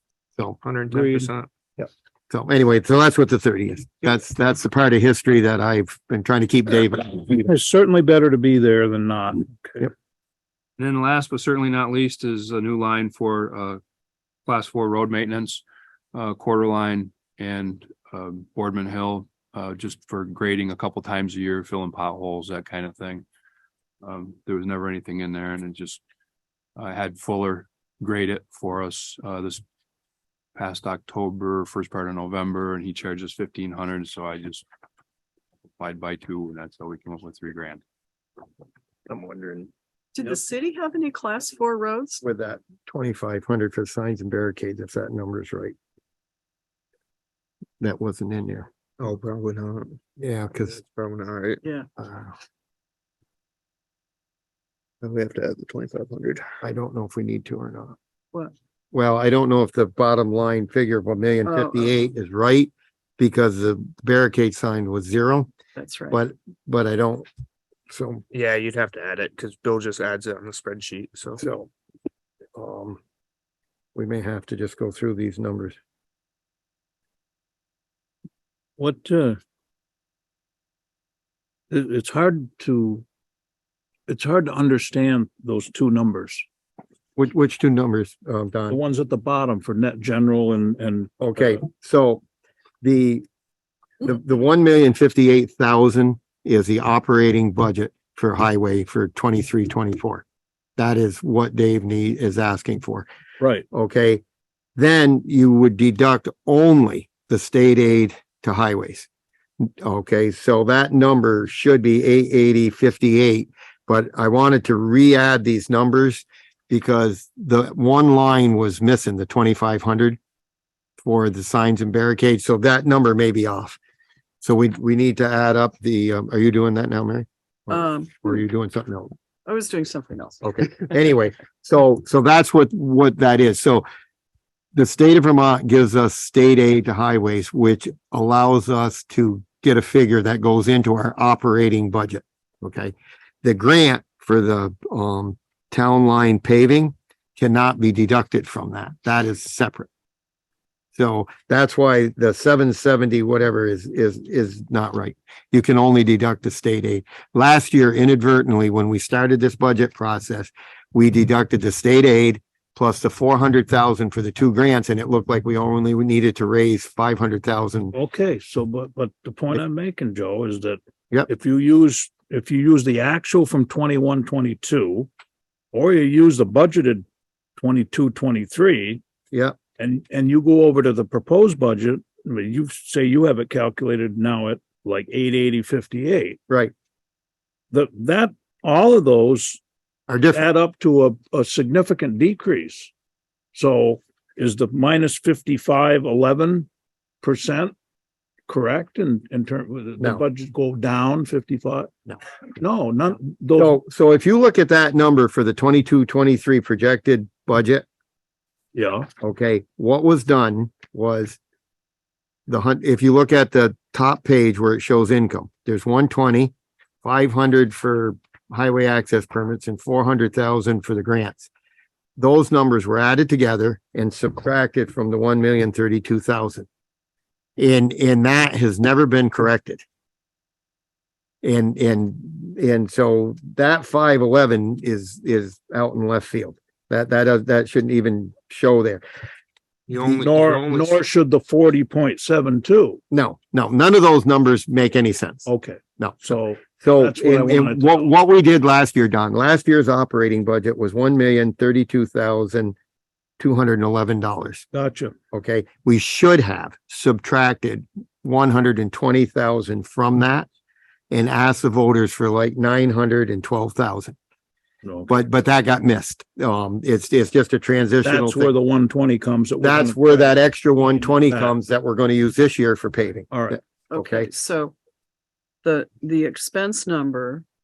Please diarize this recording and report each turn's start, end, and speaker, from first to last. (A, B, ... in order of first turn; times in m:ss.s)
0:00.6-0:01.5 A
0:00.9-0:01.3 B
0:02.3-0:07.5 C
0:07.4-0:09.9 B
0:10.8-0:13.8 D
0:14.4-0:15.6 D
0:16.1-0:23.2 D
0:24.0-0:26.0 D
0:26.8-0:29.6 D
0:30.5-0:34.6 D
0:35.8-0:37.8 D
0:39.1-0:39.7 A
0:40.1-0:42.2 E
0:42.2-0:45.8 C
0:47.8-0:48.7 C
0:49.0-0:50.0 A
0:50.2-0:50.8 C
0:50.7-0:51.6 A
0:52.0-0:52.3 C
0:55.0-0:56.5 A
0:56.6-0:58.0 C
0:58.9-1:05.5 C
1:01.4-1:02.0 E
1:05.8-1:06.2 E
1:06.1-1:07.2 C
1:07.9-1:08.2 C
1:08.3-1:11.4 A
1:11.4-1:11.7 C
1:12.5-1:13.0 C
1:13.9-1:15.8 C
1:18.8-1:19.4 B
1:21.7-1:23.0 B
1:24.1-1:26.4 B
1:27.2-1:28.8 C
1:28.7-1:31.6 B
1:31.2-1:32.2 C
1:32.8-1:33.2 C
1:34.0-1:40.2 C
1:40.8-1:43.1 C
1:43.4-1:43.6 B
1:43.7-1:44.2 C
1:44.8-1:49.1 C
1:49.6-2:00.2 C
2:01.0-2:03.8 C
2:04.4-2:09.1 C
2:07.7-2:08.4 E
2:09.4-2:10.4 E
2:10.4-2:13.8 C
2:14.7-2:29.9 C
2:31.0-2:47.9 C
2:47.9-2:55.1 B
2:55.7-2:57.0 B
2:57.6-2:59.0 B
2:59.8-3:06.4 B
3:07.7-3:09.6 B
3:10.1-3:10.4 C
3:10.3-3:12.9 B
3:13.5-3:16.7 B
3:17.2-3:17.7 B
3:18.5-3:21.9 B
3:22.6-3:23.7 B
3:23.6-3:27.8 C
3:28.7-3:29.1 B
3:29.2-3:31.4 C
3:32.5-3:36.5 C
3:37.0-3:41.5 C
3:42.2-3:46.7 C
3:47.6-3:49.8 C
3:51.4-3:59.0 C
3:59.9-4:01.0 A
4:00.0-4:03.0 B
4:03.1-4:05.5 C
4:05.4-4:08.1 B
4:06.0-4:12.7 C
4:13.4-4:14.6 C
4:14.7-4:15.1 B
4:15.3-4:20.5 C
4:21.1-4:24.2 C
4:24.8-4:25.1 B
4:25.1-4:28.5 C
4:28.0-4:30.4 B
4:29.6-4:34.3 C
4:30.9-4:31.5 B
4:33.3-4:33.6 B
4:33.9-4:34.7 E
4:35.6-4:37.4 E